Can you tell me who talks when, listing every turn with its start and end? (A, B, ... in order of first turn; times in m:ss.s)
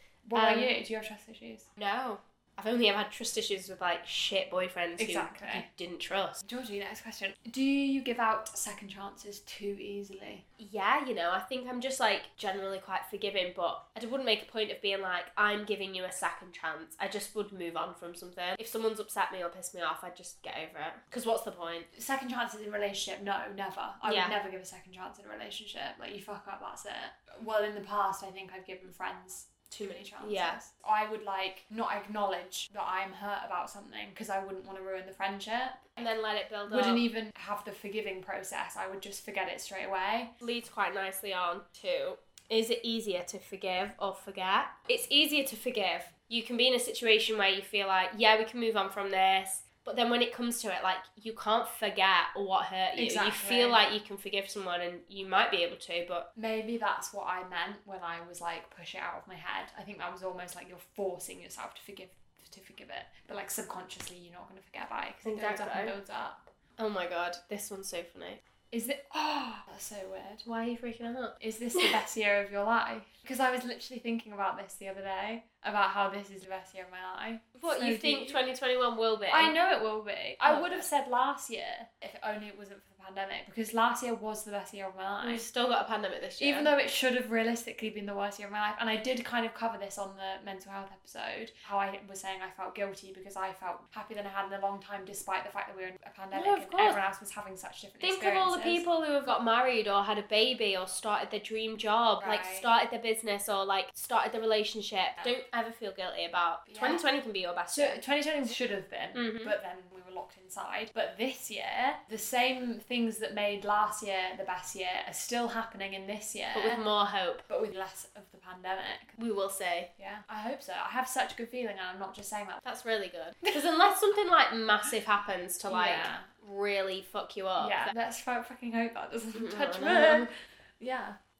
0:00.2-0:01.7 A
0:00.3-0:00.7 B
0:01.8-0:06.4 B
0:05.0-0:05.7 A
0:06.4-0:10.4 A
0:10.6-0:21.9 B
0:21.9-0:35.9 A
0:24.0-0:24.3 B
0:29.7-0:30.6 B
0:36.0-0:37.1 B
0:36.7-0:40.3 A
0:40.4-0:56.3 B
0:53.0-0:53.8 A
0:56.4-1:06.5 A
1:05.2-1:05.9 B
1:06.8-1:08.4 B
1:08.7-1:10.4 A
1:10.4-1:12.0 B
1:11.4-1:18.4 A
1:17.6-1:19.6 B
1:19.3-1:25.4 A
1:20.4-1:20.8 B
1:25.2-1:26.7 B
1:26.4-1:38.8 A
1:36.3-1:37.0 B
1:38.0-1:48.0 B
1:42.2-1:42.7 A
1:46.7-1:47.0 A
1:47.7-1:56.8 A
1:49.1-1:49.5 B
1:56.5-1:57.4 B
1:57.5-1:59.2 A
1:59.2-1:59.9 B
2:00.0-2:02.6 A
2:02.6-2:07.9 B
2:05.7-2:06.3 A
2:07.6-2:11.2 A
2:09.3-2:10.3 B